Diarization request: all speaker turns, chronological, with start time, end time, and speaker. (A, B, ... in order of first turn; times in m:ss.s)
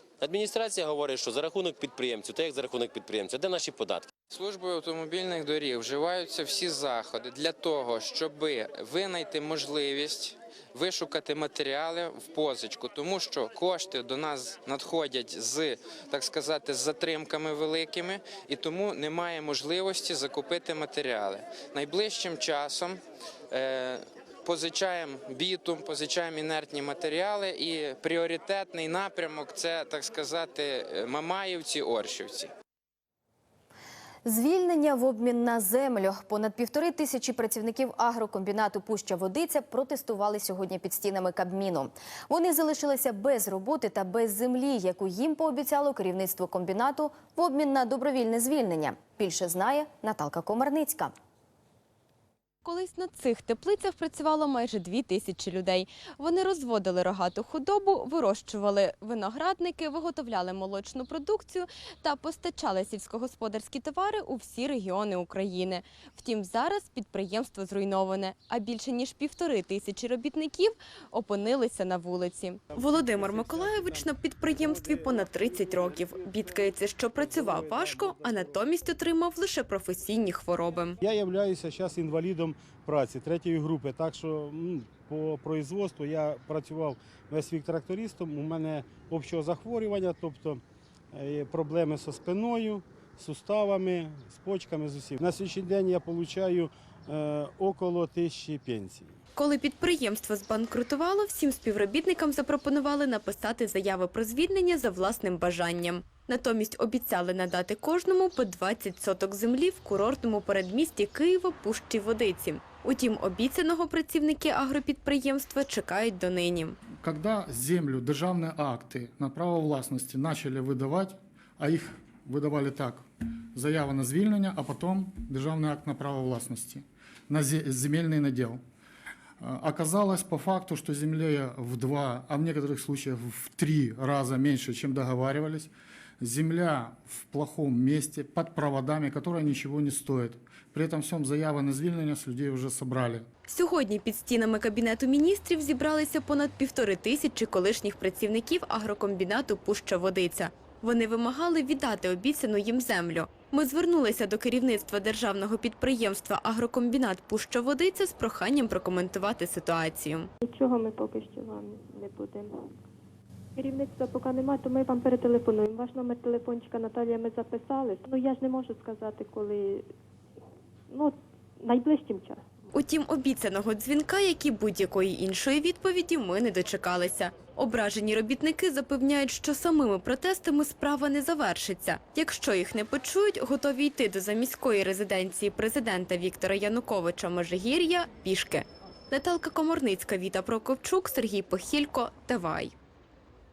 0:00.2-0:04.1 A
0:04.3-0:23.0 B
0:23.5-0:32.5 B
0:34.2-0:51.1 C
0:52.6-1:21.0 D
1:12.7-1:14.1 E
1:14.6-1:18.6 E
1:21.0-1:30.6 E
1:31.1-1:39.2 E
1:39.4-1:56.8 D
1:57.0-2:08.6 F
2:09.4-2:23.3 F
2:23.5-2:40.3 D
2:40.6-2:42.4 G
2:43.6-2:49.6 G
2:50.9-2:52.4 G
2:52.7-3:12.7 D